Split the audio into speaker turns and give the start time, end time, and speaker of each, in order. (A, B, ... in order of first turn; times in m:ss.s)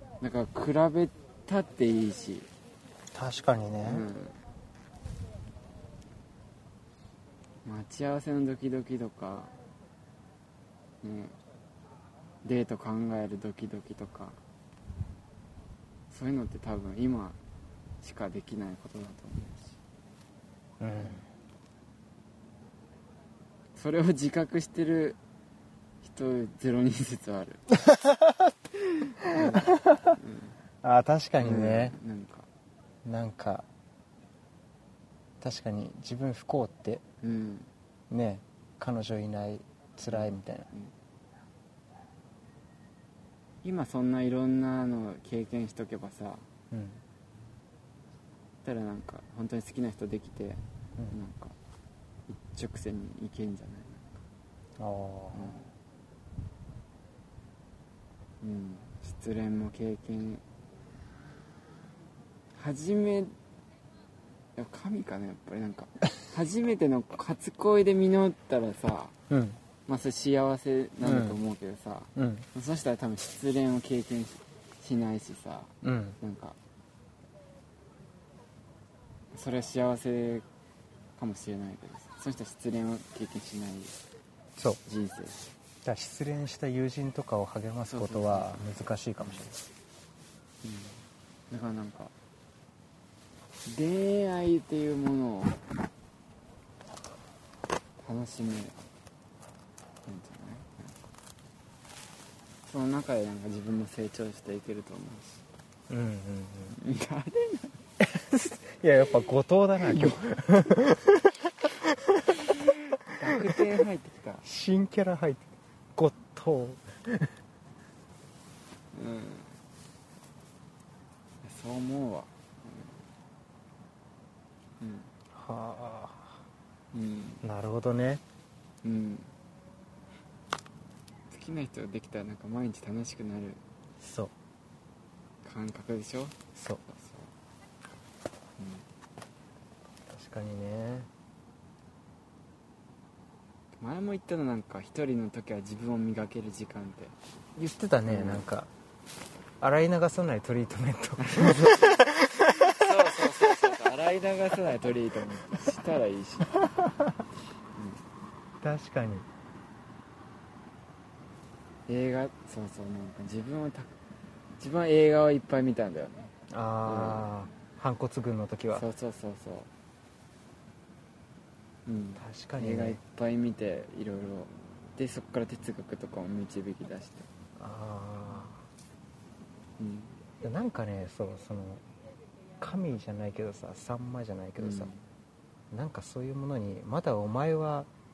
0:00.2-0:02.5 A
0:03.1-0:04.1 B
0:03.8-0:04.4 A
0:07.6-0:09.5 A
0:11.0-0:11.4 A
0:12.4-0:14.4 A
0:16.1-0:17.4 A
0:18.0-0:19.8 A
0:20.8-0:21.2 B
0:23.8-0:25.2 A
0:26.0-0:27.8 A
0:27.9-0:28.6 B
0:29.2-0:30.2 B
0:29.2-0:30.6 A
0:30.8-0:32.0 B
0:31.4-0:32.5 A
0:33.0-0:33.7 B
0:35.4-0:37.0 B
0:37.2-0:37.7 A
0:38.1-0:40.7 B
0:40.1-0:40.9 A
0:43.6-0:46.5 A
0:46.7-0:47.0 B
0:48.6-0:51.6 A
0:52.3-0:54.2 A
0:54.8-0:55.5 B
0:55.3-0:55.7 A
0:58.4-1:00.4 A
1:02.6-1:03.3 A
1:04.6-1:09.2 A
1:09.3-1:09.6 B
1:09.9-1:16.6 A
1:11.0-1:11.4 B
1:12.2-1:12.5 B
1:15.8-1:16.2 B
1:19.3-1:20.5 A
1:21.2-1:24.0 A
1:24.9-1:25.5 A
1:25.8-1:29.6 B
1:27.9-1:28.6 A
1:29.2-1:29.5 A
1:30.6-1:32.1 A
1:33.7-1:35.6 A
1:38.0-1:38.8 A
1:40.1-1:41.0 A
1:42.7-1:45.4 A
1:45.9-1:46.8 B
1:46.7-1:47.8 A
1:48.0-1:52.7 B
1:49.9-1:50.2 A
1:52.7-1:54.4 A
1:54.4-1:57.3 B
1:58.9-1:59.6 A
2:01.4-2:03.0 A
2:04.8-2:05.1 A
2:05.3-2:06.4 B
2:06.9-2:07.4 A
2:07.4-2:08.2 B
2:08.8-2:09.3 A
2:11.3-2:13.6 A
2:14.0-2:14.3 B
2:15.4-2:17.3 A
2:16.6-2:16.8 B
2:18.6-2:18.9 A
2:20.1-2:21.1 B
2:23.8-2:27.2 A
2:27.6-2:28.7 B
2:28.1-2:28.5 A
2:29.6-2:33.3 B
2:31.2-2:36.6 A
2:36.7-2:37.2 B
2:37.8-2:38.0 A
2:38.6-2:39.3 B
2:41.9-2:43.9 A
2:44.6-2:46.3 A
2:46.5-2:48.9 B
2:46.9-2:47.3 A
2:48.7-2:49.7 A
2:51.9-2:57.3 A
2:52.2-2:53.0 B
2:57.6-2:58.6 B
2:59.8-3:00.1 A
3:00.4-3:01.8 B
3:02.6-3:04.9 B
3:04.6-3:05.1 A
3:05.7-3:07.9 B